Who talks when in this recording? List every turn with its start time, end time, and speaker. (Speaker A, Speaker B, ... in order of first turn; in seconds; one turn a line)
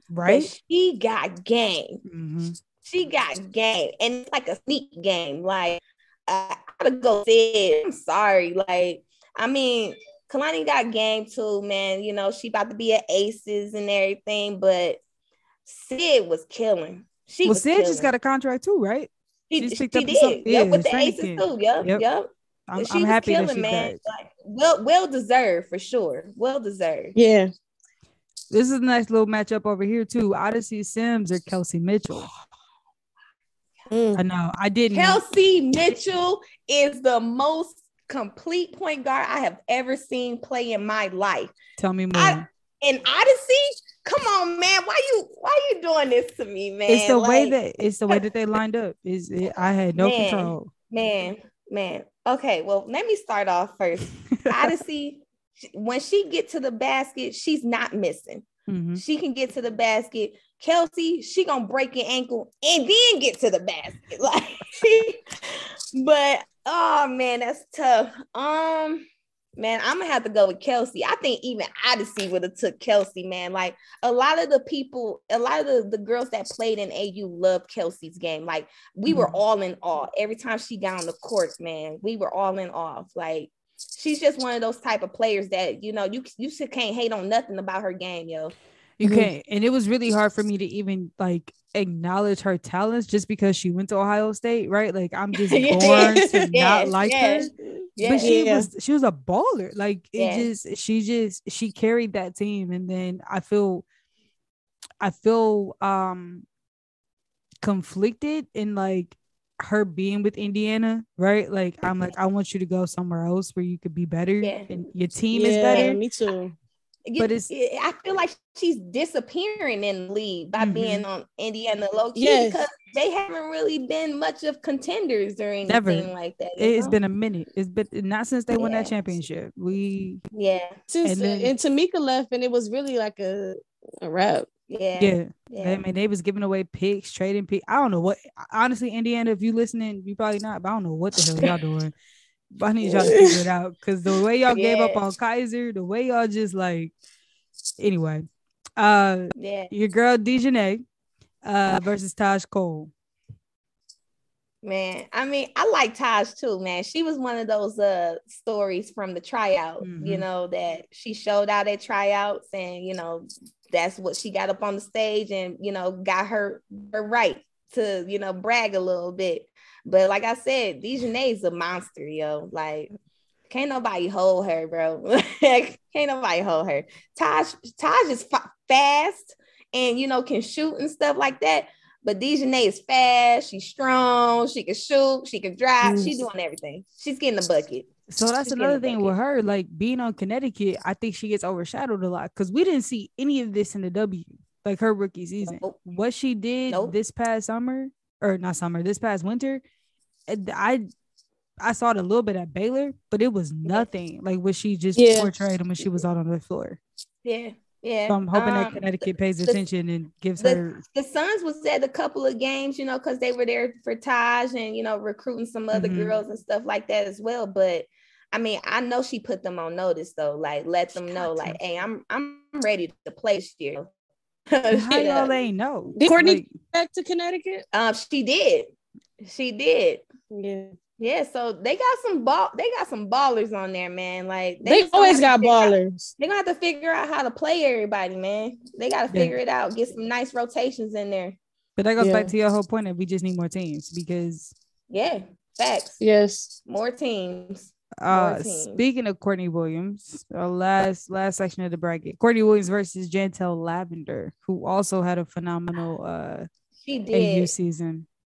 Speaker A: 0.1-0.5
Speaker B: 0.2-2.0
Speaker A: 2.0-2.6
Speaker B: 2.9-15.0
Speaker B: 15.7-18.1
Speaker A: 17.4-22.0
Speaker B: 19.5-27.1
Speaker A: 22.7-24.0
Speaker C: 27.1-27.5
Speaker A: 28.5-32.3
Speaker C: 33.9-34.2
Speaker A: 34.1-35.2
Speaker B: 34.9-41.5
Speaker A: 41.8-42.5
Speaker B: 42.1-47.5
Speaker A: 46.9-50.7
Speaker B: 50.0-88.5
Speaker A: 54.4-54.7
Speaker A: 58.7-59.0
Speaker A: 79.1-79.4
Speaker A: 89.0-103.8
Speaker C: 89.0-89.3
Speaker B: 95.4-98.3
Speaker C: 95.9-96.5
Speaker C: 98.2-98.7
Speaker B: 100.2-100.5
Speaker A: 105.0-106.5
Speaker A: 107.6-116.0
Speaker B: 114.4-114.7
Speaker C: 115.3-116.5
Speaker B: 115.7-116.0
Speaker B: 117.1-127.0
Speaker A: 117.2-117.5
Speaker A: 120.6-121.0
Speaker C: 122.2-122.6
Speaker A: 125.7-130.2
Speaker B: 128.5-128.9
Speaker B: 130.3-130.8
Speaker C: 130.9-134.5
Speaker A: 131.0-131.5
Speaker B: 134.7-135.8
Speaker A: 135.0-141.9
Speaker A: 142.6-146.9
Speaker C: 142.8-143.4
Speaker B: 144.5-145.0
Speaker A: 147.8-150.8
Speaker B: 149.4-149.7
Speaker A: 151.4-152.9
Speaker B: 154.6-172.9
Speaker A: 159.8-160.2
Speaker B: 173.5-187.9
Speaker C: 185.8-186.1
Speaker A: 188.1-199.6
Speaker B: 188.5-189.1
Speaker B: 195.4-195.8
Speaker A: 200.3-200.9
Speaker A: 201.6-206.8
Speaker C: 205.0-205.3
Speaker B: 207.2-209.6
Speaker A: 208.1-210.8
Speaker B: 210.4-223.9
Speaker A: 215.7-216.2
Speaker A: 221.2-221.6
Speaker B: 224.5-225.3
Speaker A: 224.7-226.6
Speaker C: 226.0-227.7
Speaker B: 227.7-228.7
Speaker B: 229.2-230.0
Speaker C: 230.3-230.7
Speaker B: 231.0-241.4
Speaker C: 234.6-236.1
Speaker A: 239.1-239.4
Speaker A: 241.8-244.5
Speaker C: 242.0-242.3
Speaker B: 244.9-246.0
Speaker C: 246.0-246.5
Speaker B: 246.7-248.8
Speaker A: 248.0-256.5
Speaker B: 256.8-257.5
Speaker A: 257.1-258.1